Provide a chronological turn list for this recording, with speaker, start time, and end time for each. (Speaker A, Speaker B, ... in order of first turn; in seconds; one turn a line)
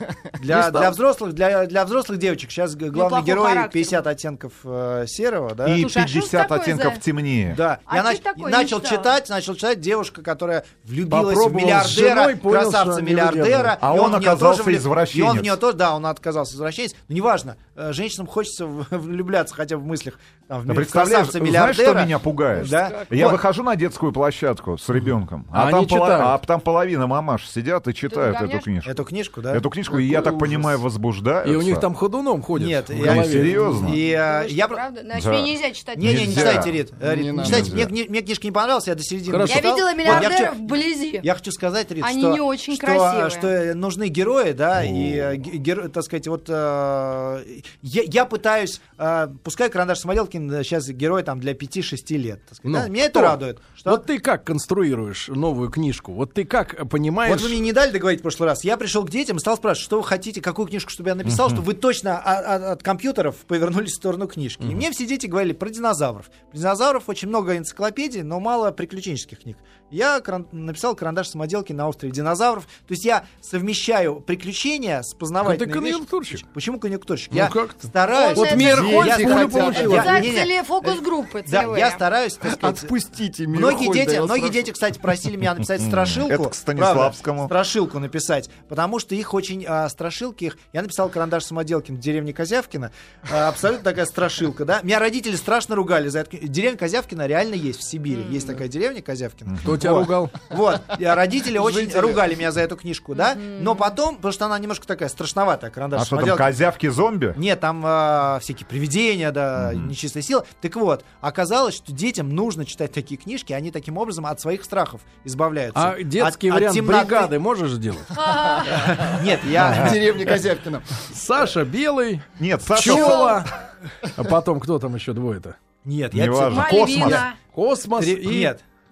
Speaker A: 0.4-5.8
Speaker B: 0.5-0.9
Speaker C: 2.9-4.0
Speaker D: 5.6-7.6
Speaker C: 5.8-7.0
Speaker A: 7.5-23.4
Speaker C: 7.9-9.2
Speaker B: 11.1-13.8
Speaker D: 13.8-15.6
Speaker D: 20.7-31.9
Speaker C: 22.6-23.0
Speaker B: 25.5-26.4
Speaker C: 28.1-28.7
Speaker A: 28.9-29.6
Speaker E: 30.0-30.7
Speaker B: 31.4-33.9
Speaker A: 32.6-34.8
Speaker D: 33.0-34.0
Speaker C: 34.0-36.7
Speaker D: 35.1-36.8
Speaker A: 36.0-54.0
Speaker E: 37.0-37.8
Speaker D: 37.4-37.9
Speaker B: 39.3-40.3
Speaker C: 39.5-41.3
Speaker C: 42.0-43.5
Speaker D: 44.8-45.3
Speaker B: 52.6-57.6
Speaker A: 57.2-82.9
Speaker B: 75.4-76.4
Speaker B: 77.3-80.3
Speaker C: 78.1-82.0
Speaker E: 78.9-80.3
Speaker E: 82.4-84.7
Speaker A: 83.5-106.5
Speaker D: 85.8-87.5
Speaker C: 98.1-98.6
Speaker B: 99.6-100.4
Speaker D: 101.6-102.2
Speaker C: 103.2-103.9
Speaker D: 106.0-107.4
Speaker A: 107.3-117.3
Speaker D: 109.6-109.9
Speaker B: 115.7-118.2
Speaker C: 118.1-119.2
Speaker E: 118.3-118.6
Speaker A: 118.7-120.1
Speaker B: 119.5-120.0
Speaker E: 119.6-121.0
Speaker B: 121.1-123.5
Speaker D: 122.4-123.3
Speaker C: 122.8-123.5
Speaker B: 124.1-125.6
Speaker A: 125.8-127.2
Speaker D: 126.1-127.3
Speaker C: 126.5-127.4
Speaker B: 127.5-128.6
Speaker A: 128.0-128.6